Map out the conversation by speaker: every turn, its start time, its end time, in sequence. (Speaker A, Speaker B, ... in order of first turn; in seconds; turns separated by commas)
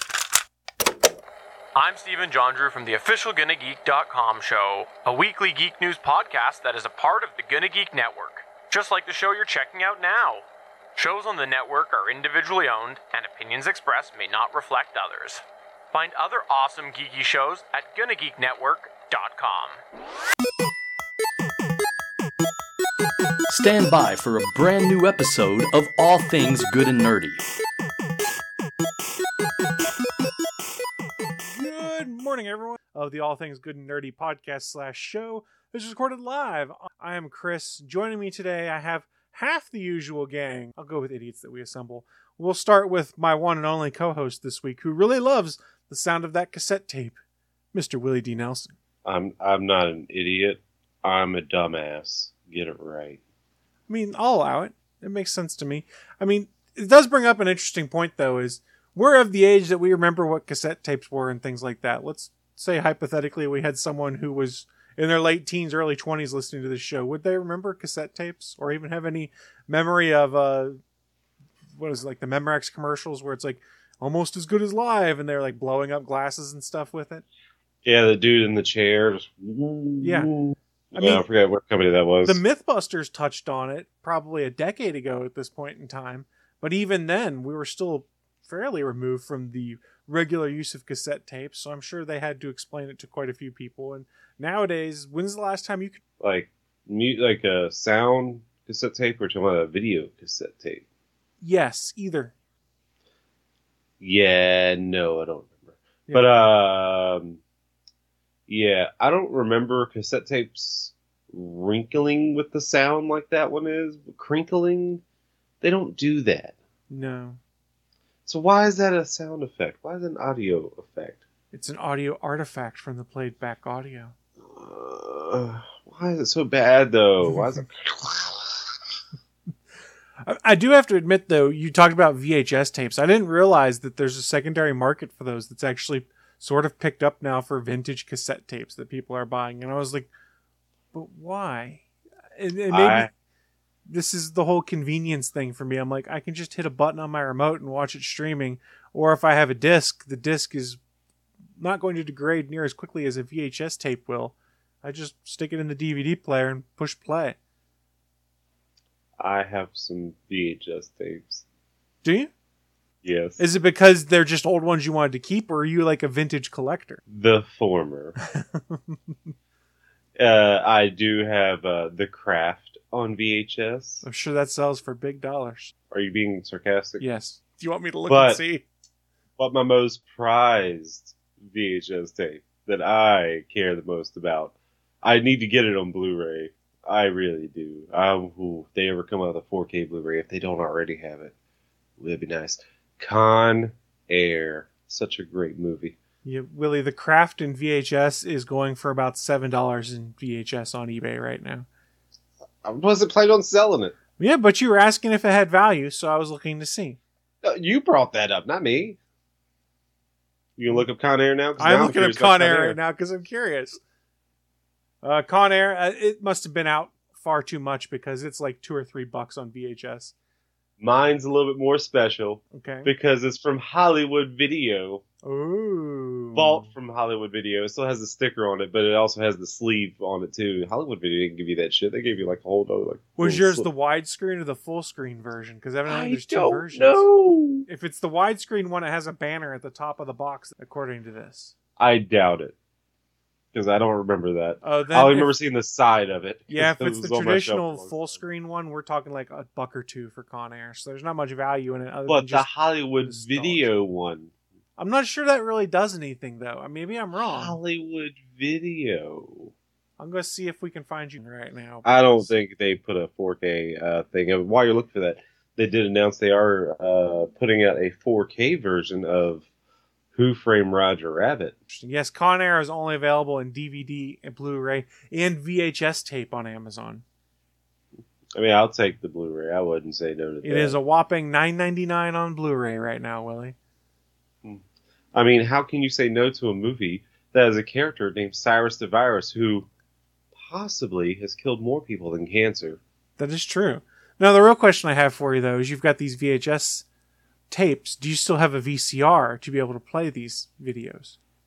Speaker A: 1.8-10.5, Speaker A: 11.0-19.8, Speaker B: 23.5-27.4, Speaker C: 31.5-47.2, Speaker C: 47.7-48.7, Speaker D: 49.0-53.2, Speaker C: 53.9-70.8, Speaker C: 71.8-77.2, Speaker D: 77.8-82.4, Speaker C: 80.0-80.3, Speaker C: 81.0-81.2, Speaker C: 82.2-96.0, Speaker D: 96.2-100.8, Speaker C: 101.4-102.3, Speaker D: 104.0-107.4, Speaker D: 108.5-115.0, Speaker D: 115.6-116.5, Speaker C: 116.9-117.4, Speaker D: 118.3-121.2, Speaker C: 121.5-124.1, Speaker D: 124.4-128.6, Speaker C: 130.2-140.1, Speaker C: 140.9-141.8, Speaker C: 142.4-143.1, Speaker D: 142.7-143.1, Speaker C: 143.9-150.8, Speaker C: 151.6-157.4, Speaker D: 159.2-161.4, Speaker C: 162.0-162.3, Speaker D: 163.0-163.4, Speaker C: 163.4-167.0, Speaker D: 167.1-168.2, Speaker C: 168.3-169.0, Speaker D: 170.2-174.0, Speaker C: 174.0-175.7, Speaker D: 175.9-177.0, Speaker C: 177.0-178.7, Speaker D: 178.1-178.4, Speaker D: 179.4-191.3, Speaker D: 192.0-196.0, Speaker C: 196.2-201.7, Speaker D: 202.6-203.9, Speaker C: 204.2-207.0, Speaker D: 207.4-209.0, Speaker D: 210.6-212.8, Speaker C: 211.6-213.8, Speaker C: 215.0-220.1, Speaker D: 220.8-225.0, Speaker C: 222.5-222.9, Speaker C: 225.2-226.7, Speaker D: 226.3-233.7, Speaker C: 233.2-237.1, Speaker D: 235.9-237.7, Speaker C: 237.7-241.5, Speaker D: 241.8-242.6, Speaker D: 243.5-248.1, Speaker C: 244.6-245.3, Speaker C: 246.5-252.5, Speaker D: 252.1-254.3, Speaker C: 253.0-253.7, Speaker C: 254.8-257.6, Speaker D: 257.3-259.5, Speaker C: 260.0-262.3, Speaker D: 261.8-269.4, Speaker D: 270.1-271.6, Speaker C: 271.7-277.0, Speaker D: 278.4-280.8, Speaker C: 280.4-283.6, Speaker D: 285.1-289.7, Speaker D: 290.4-292.8, Speaker C: 293.2-296.9, Speaker C: 297.5-301.1